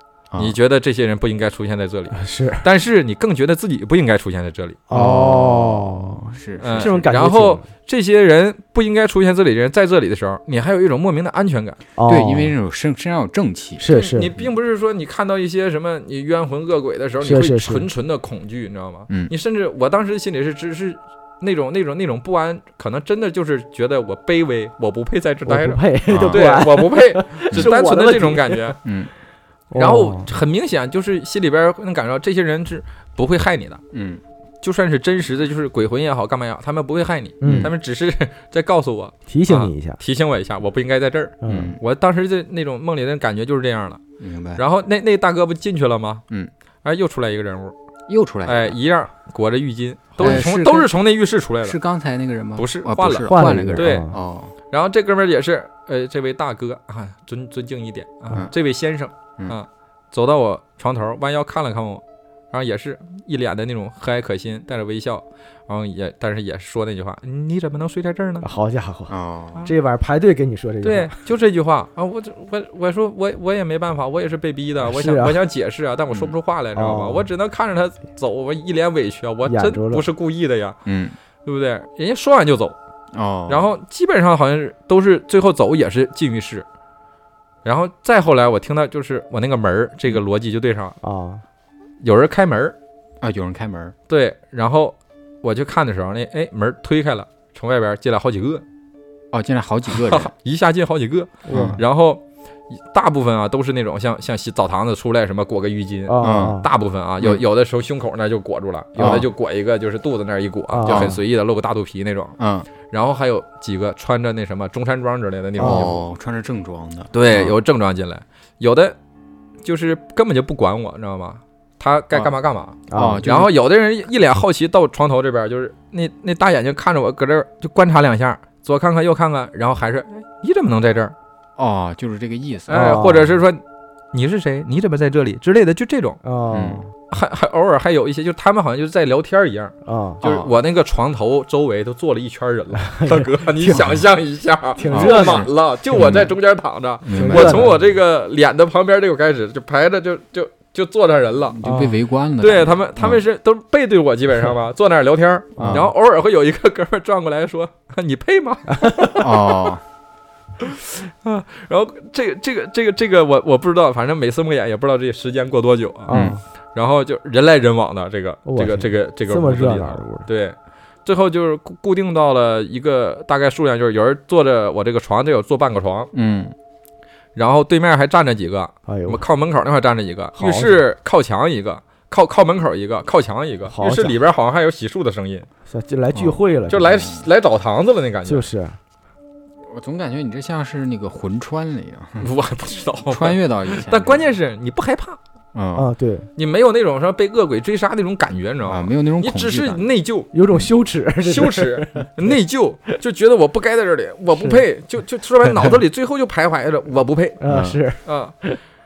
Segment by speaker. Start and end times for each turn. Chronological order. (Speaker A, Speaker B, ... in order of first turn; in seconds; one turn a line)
Speaker A: 0.4-4.8
Speaker B: 2.1-2.6
Speaker B: 4.9-7.6
Speaker C: 4.9-7.0
Speaker A: 6.6-11.8
Speaker B: 12.0-12.6
Speaker C: 12.1-14.4
Speaker B: 13.8-14.3
Speaker A: 13.9-28.8
Speaker B: 17.2-17.9
Speaker B: 25.5-28.8
Speaker C: 26.1-26.5
Speaker C: 28.8-29.1
Speaker B: 29.7-30.3
Speaker A: 29.8-33.8
Speaker C: 33.9-34.2
Speaker A: 34.6-44.0
Speaker B: 37.4-37.7
Speaker C: 37.4-37.7
Speaker B: 39.3-40.0
Speaker B: 41.4-41.8
Speaker C: 41.5-41.8
Speaker C: 44.2-44.6
Speaker A: 44.6-46.2
Speaker A: 46.8-47.8
Speaker C: 48.1-48.8
Speaker A: 48.5-51.8
Speaker C: 50.2-50.9
Speaker C: 51.6-54.5
Speaker A: 52.6-54.1
Speaker B: 53.3-54.2
Speaker A: 54.7-68.5
Speaker B: 68.4-69.1
Speaker C: 69.1-69.7
Speaker B: 69.7-71.2
Speaker A: 70.8-80.8
Speaker B: 74.9-75.4
Speaker B: 76.8-77.3
Speaker B: 79.5-80.1
Speaker C: 80.9-81.2
Speaker A: 81.4-82.8
Speaker C: 83.1-83.7
Speaker A: 83.5-86.7
Speaker A: 87.7-91.0
Speaker B: 91.0-91.4
Speaker A: 92.0-92.8
Speaker C: 93.2-94.0
Speaker A: 94.1-98.6
Speaker C: 99.3-100.3
Speaker A: 99.9-112.4
Speaker B: 101.5-101.8
Speaker C: 101.5-101.8
Speaker B: 106.1-106.7
Speaker C: 106.2-106.6
Speaker C: 109.0-109.3
Speaker B: 110.7-111.2
Speaker C: 112.4-112.7
Speaker A: 112.9-116.0
Speaker B: 115.6-116.0
Speaker C: 115.6-117.6
Speaker A: 117.1-119.0
Speaker A: 119.6-131.2
Speaker B: 122.9-123.5
Speaker C: 122.9-123.5
Speaker C: 131.6-133.0
Speaker A: 132.7-136.2
Speaker B: 132.7-133.4
Speaker B: 136.2-136.9
Speaker C: 136.5-136.9
Speaker A: 137.1-151.6
Speaker B: 139.8-140.2
Speaker C: 140.2-140.5
Speaker B: 142.9-143.8
Speaker C: 143.6-144.0
Speaker B: 144.8-146.1
Speaker C: 144.9-146.3
Speaker C: 147.0-147.8
Speaker B: 147.2-147.8
Speaker C: 151.6-153.2
Speaker B: 151.6-152.0
Speaker A: 152.4-159.3
Speaker C: 155.6-155.9
Speaker B: 158.7-159.1
Speaker C: 159.2-159.8
Speaker A: 160.6-166.2
Speaker B: 166.1-166.4
Speaker C: 166.1-166.4
Speaker A: 166.8-176.1
Speaker B: 168.5-170.3
Speaker C: 176.1-176.5
Speaker A: 177.3-185.5
Speaker B: 178.9-179.2
Speaker B: 180.3-180.8
Speaker B: 183.7-184.2
Speaker B: 185.7-186.9
Speaker C: 186.1-187.2
Speaker A: 186.7-188.5
Speaker B: 188.3-188.8
Speaker C: 189.7-192.3
Speaker A: 192.2-195.2
Speaker C: 193.1-194.2
Speaker C: 195.5-195.9
Speaker B: 195.8-196.3
Speaker A: 196.4-200.3
Speaker C: 198.7-199.9
Speaker B: 200.3-202.4
Speaker A: 201.2-207.4
Speaker B: 204.4-204.6
Speaker B: 207.4-208.6
Speaker C: 207.5-207.8
Speaker A: 208.1-208.4